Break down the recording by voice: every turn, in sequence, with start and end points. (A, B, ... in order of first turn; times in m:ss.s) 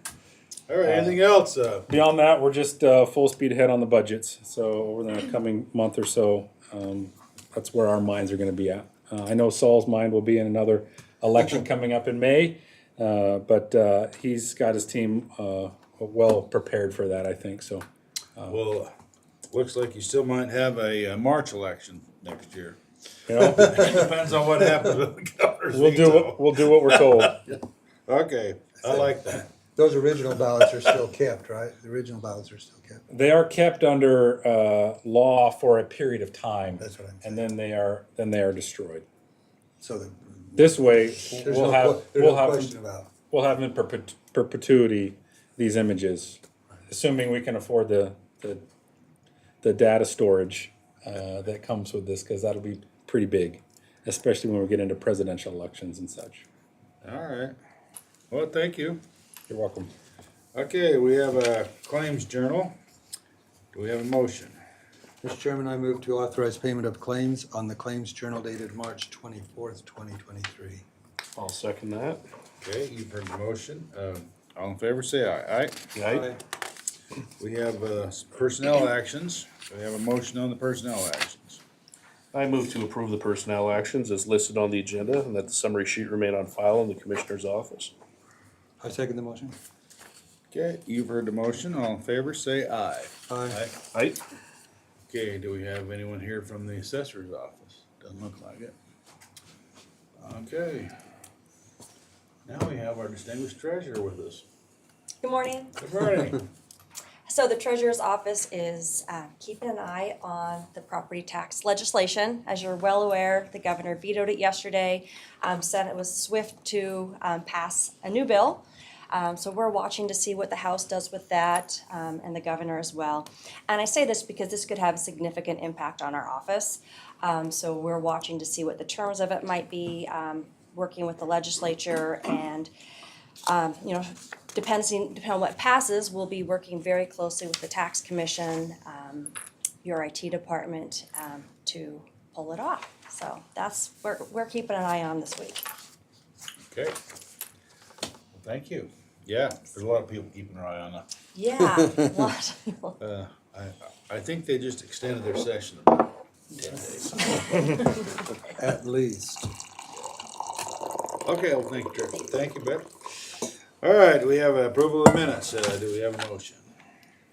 0:00.7-0:01.9 A
0:00.8-0:01.2 B
0:01.9-0:17.8 B
0:18.5-0:18.9 A
0:19.5-0:22.8 A
0:23.3-0:24.0 B
0:23.4-0:26.4 A
0:25.7-0:27.5 B
0:27.2-0:29.5 A
0:28.8-0:33.0 C
0:33.1-0:39.1 B
0:36.8-0:37.4 C
0:39.8-0:40.7 C
0:40.6-0:42.8 B
0:41.3-0:43.1 C
0:43.3-0:48.6 B
0:49.6-0:56.5 B
0:57.0-0:57.5 A
0:58.3-0:59.0 A
0:59.5-0:59.9 B
1:00.5-1:02.8 A
1:03.7-1:04.6 A
1:05.2-1:10.8 C
1:11.4-1:12.2 D
1:12.6-1:15.8 A
1:16.0-1:16.3 D
1:16.1-1:16.4 C
1:17.4-1:21.6 A
1:22.3-1:27.9 D
1:28.8-1:29.6 C
1:30.5-1:33.8 A
1:33.3-1:33.6 C
1:33.9-1:34.2 D
1:35.1-1:38.8 A
1:40.2-1:40.9 A
1:42.4-1:44.4 A
1:45.2-1:45.8 E
1:45.8-1:46.4 A
1:47.3-2:12.7 E
2:13.5-2:25.6 E
2:26.7-2:27.0 A
2:28.3-2:31.1 A
2:31.3-2:33.0 E
2:33.0-2:37.8 A
2:38.5-2:39.5 C
2:41.2-2:43.3 A
2:43.8-2:46.7 A